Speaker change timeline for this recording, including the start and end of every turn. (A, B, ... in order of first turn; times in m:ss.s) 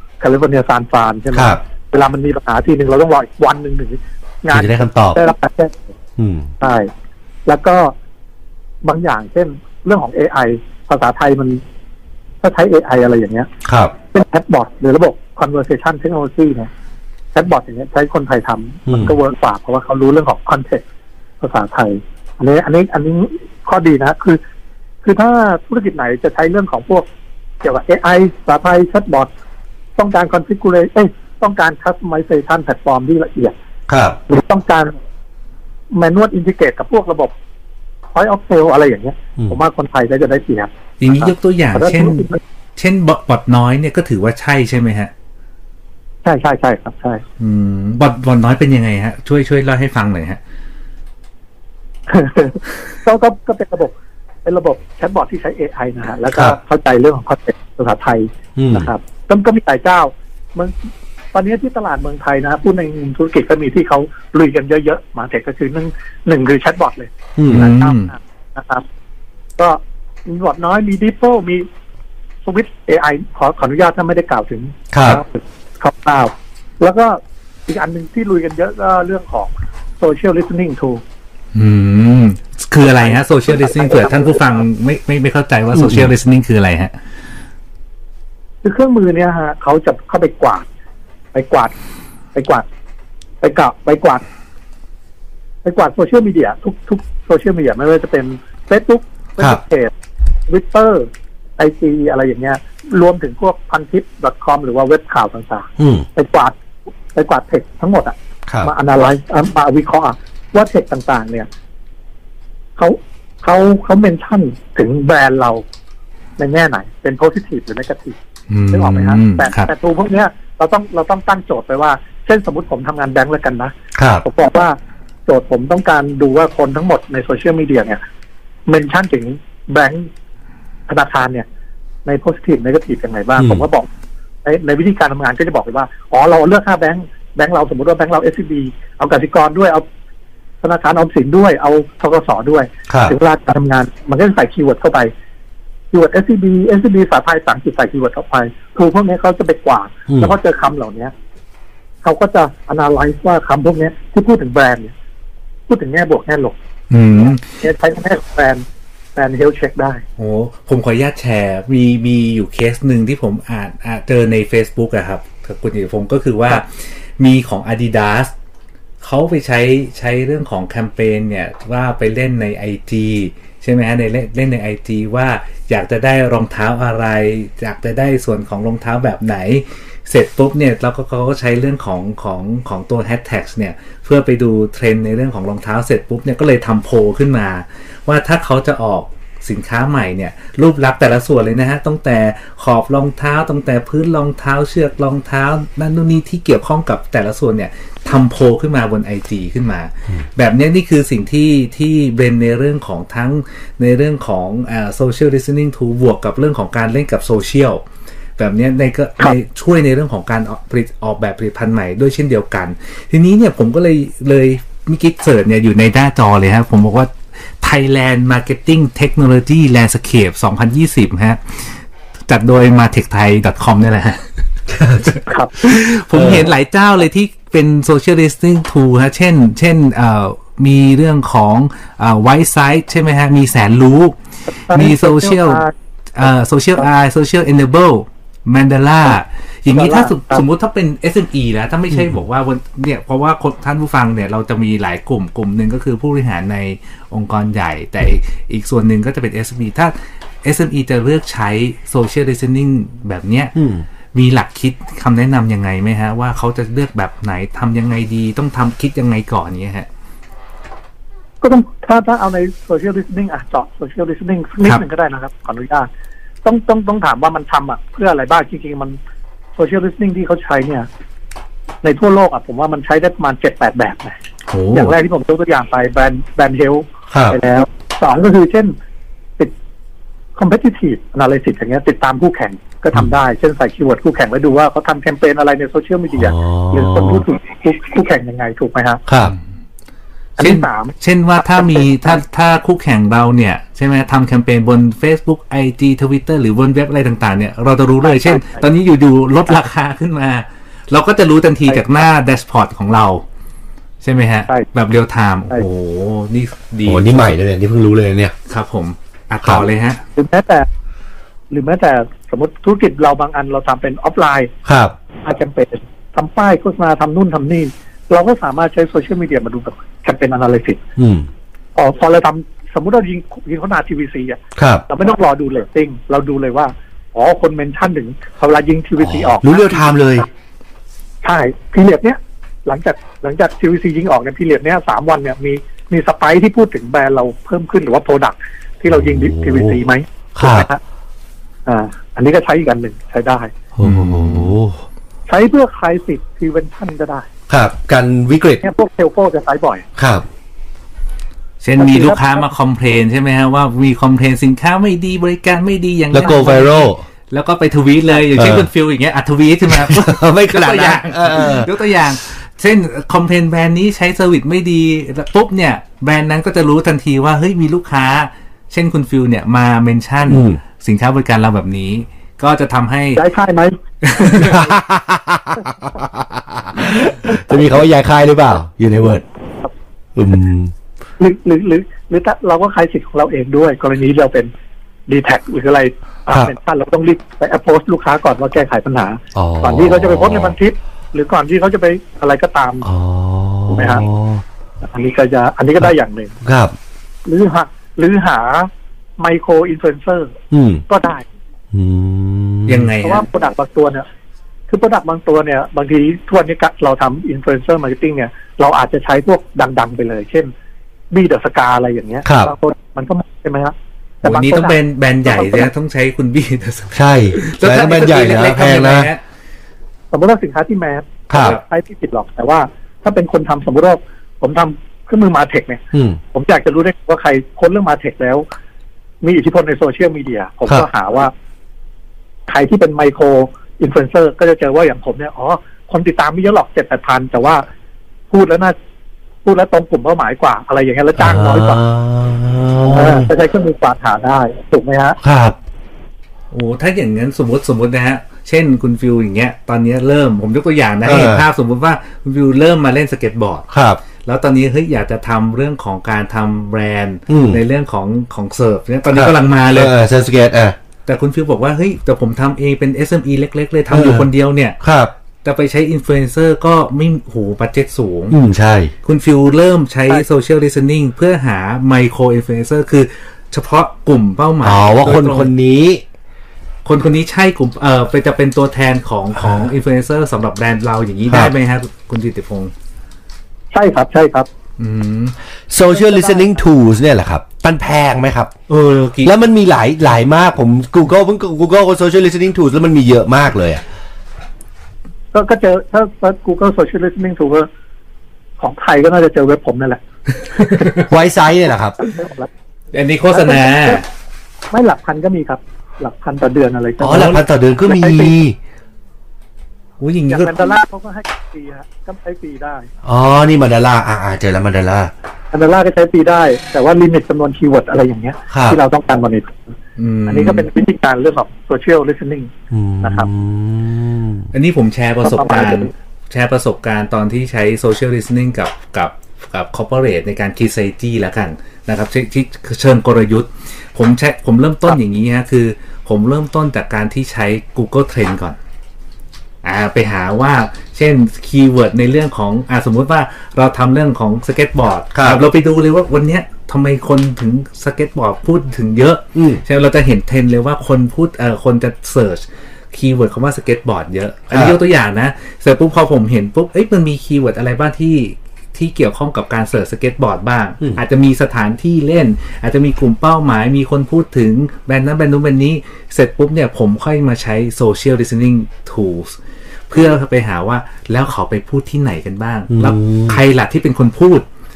0:00.2-0:05.9 A
0:01.3-0:01.6 B
0:04.5-0:05.2 B
0:06.2-0:06.5 B
0:06.6-0:06.9 A
0:07.4-0:07.9 A
0:08.8-0:11.6 A
0:12.4-0:13.5 A
0:13.6-0:13.9 B
0:14.1-0:16.7 A
0:17.3-0:20.8 A
0:18.9-0:19.1 B
0:21.4-0:24.4 A
0:25.0-0:27.1 A
0:27.6-0:29.3 A
0:30.0-0:33.5 A
0:33.9-0:34.2 B
0:34.3-0:35.0 A
0:35.9-0:37.3 A
0:38.1-0:42.4 A
0:41.0-0:45.1 C
0:46.2-0:47.2 A
0:47.4-0:50.4 C
0:52.1-0:53.9 A
0:54.4-1:00.7 A
0:56.3-0:56.6 B
0:58.6-0:58.9 B
1:01.3-1:08.8 A
1:07.4-1:07.7 B
1:07.5-1:08.1 C
1:09.6-1:11.7 A
1:12.4-1:21.0 A
1:14.9-1:15.2 B
1:21.5-1:26.9 C
1:22.8-1:24.6 A
1:25.7-1:26.1 B
1:28.6-1:30.6 A
1:31.3-1:31.7 A
1:32.3-1:32.6 A
1:33.4-1:34.2 A
1:35.6-1:39.9 A
1:40.5-1:46.6 A
1:45.8-1:46.0 B
1:47.1-1:51.5 A
1:52.8-1:55.6 A
1:56.4-1:58.2 A
1:58.5-1:59.7 C
1:58.7-2:08.0 A
2:04.0-2:04.2 B
2:08.7-2:10.1 A
2:10.9-2:11.4 A
2:12.0-2:13.9 A
2:13.4-2:13.6 B
2:14.4-2:19.8 A
2:20.6-2:25.1 A
2:22.9-2:23.1 B
2:25.9-2:31.1 A
2:30.1-2:30.4 B
2:32.0-2:34.9 A
2:35.7-2:36.6 A
2:36.9-2:37.4 C
2:37.5-2:40.0 A
2:40.2-2:48.3 C
2:49.0-3:27.8 C
3:28.4-3:44.2 C
3:44.7-3:45.1 B
3:45.0-4:13.5 C
3:45.3-3:45.5 A
3:46.1-3:46.5 B
3:54.7-3:55.7 A
3:59.7-4:00.4 A
4:13.5-4:13.8 B
4:14.1-4:19.9 C
4:21.4-4:25.9 A
4:26.4-4:29.0 A
4:29.6-4:30.9 A
4:31.8-4:34.2 A
4:34.5-4:34.9 C
4:34.7-4:38.7 A
4:37.1-4:37.4 B
4:40.4-4:49.0 A
4:46.1-4:47.2 B
4:49.1-4:49.3 B
4:50.4-4:50.9 A
4:50.4-5:03.2 C
4:58.0-4:58.6 A
5:04.0-5:07.3 C
5:06.8-5:08.3 B
5:08.5-5:10.0 C
5:10.2-5:10.7 A
5:11.5-5:14.5 A
5:14.6-5:14.9 B
5:15.2-5:20.8 A
5:21.0-5:21.3 B
5:21.8-5:29.9 A
5:24.6-5:24.8 B
5:29.0-5:30.3 B
5:31.2-5:40.8 A
5:38.9-5:39.8 B
5:40.4-5:40.7 B
5:41.6-5:43.5 A
5:43.8-5:44.8 B
5:43.8-5:44.5 C
5:45.3-5:47.3 A
5:47.5-5:48.6 B
5:48.6-5:49.8 A
5:50.0-5:50.2 B
5:51.6-6:13.2 C
5:51.8-5:52.4 A
5:56.1-5:57.0 B
5:58.4-5:58.7 B
5:59.7-6:01.7 B
6:10.3-6:10.6 B
6:13.2-6:13.8 A
6:14.0-6:14.6 C
6:14.3-6:19.2 B
6:20.2-6:20.7 B
6:21.2-6:24.5 A
6:25.1-6:32.9 A
6:29.3-6:30.6 B
6:32.8-6:34.4 B
6:33.7-6:34.0 A
6:34.8-6:36.3 A
6:36.4-6:36.7 B
6:37.2-6:40.3 A
6:40.5-6:40.8 B
6:40.9-6:41.2 A
6:41.7-6:42.9 B
6:42.7-6:43.2 C
6:43.0-6:44.0 A
6:44.7-6:50.5 A
6:51.1-6:55.7 A
6:52.2-6:52.5 B
6:54.2-6:59.2 C
6:56.9-6:59.1 B
7:00.1-7:05.8 A
7:01.3-7:01.6 B
7:01.3-7:01.6 C
7:05.9-7:06.2 B
7:06.3-7:08.4 A
7:09.2-7:11.3 A
7:12.5-7:17.7 A
7:18.3-7:18.7 A
7:19.4-7:21.8 A
7:21.2-7:23.3 B
7:22.9-7:25.2 A
7:25.2-7:25.6 B
7:26.5-7:33.7 C
7:31.0-7:31.4 B
7:33.7-7:34.0 B
7:34.2-7:39.9 C
7:37.3-7:37.6 B
7:39.1-7:40.8 B
7:41.0-7:44.8 C
7:43.9-7:44.3 B
7:44.8-7:45.1 B
7:45.4-7:48.4 C
7:48.3-7:48.9 B
7:49.0-7:55.5 C
7:54.6-7:56.0 B
7:56.8-8:02.7 C
8:03.7-8:04.5 A
8:04.8-8:05.3 C
8:05.7-8:08.5 B
8:05.9-8:06.5 A
8:08.7-8:09.3 C
8:09.2-8:13.8 B
8:15.3-8:17.7 A
8:18.6-8:20.0 A
8:20.5-8:21.1 C
8:20.6-8:20.8 A
8:21.1-8:22.0 B
8:22.0-8:22.5 A
8:22.9-8:24.0 C
8:23.3-8:24.0 A
8:24.7-8:28.3 A
8:27.0-8:28.6 B
8:27.1-8:27.4 C
8:30.0-8:30.7 C
8:30.3-8:32.9 A
8:33.0-8:35.1 B
8:35.5-8:39.7 A
8:38.5-8:38.8 B
8:40.0-8:40.7 C
8:40.3-8:43.3 A
8:42.7-8:44.5 B
8:44.5-8:58.6 C
8:45.2-8:45.9 A
8:59.6-9:29.4 C
9:05.1-9:05.4 B
9:09.3-9:09.6 B
9:14.5-9:14.8 B
9:29.9-9:34.5 C
9:32.7-9:33.4 B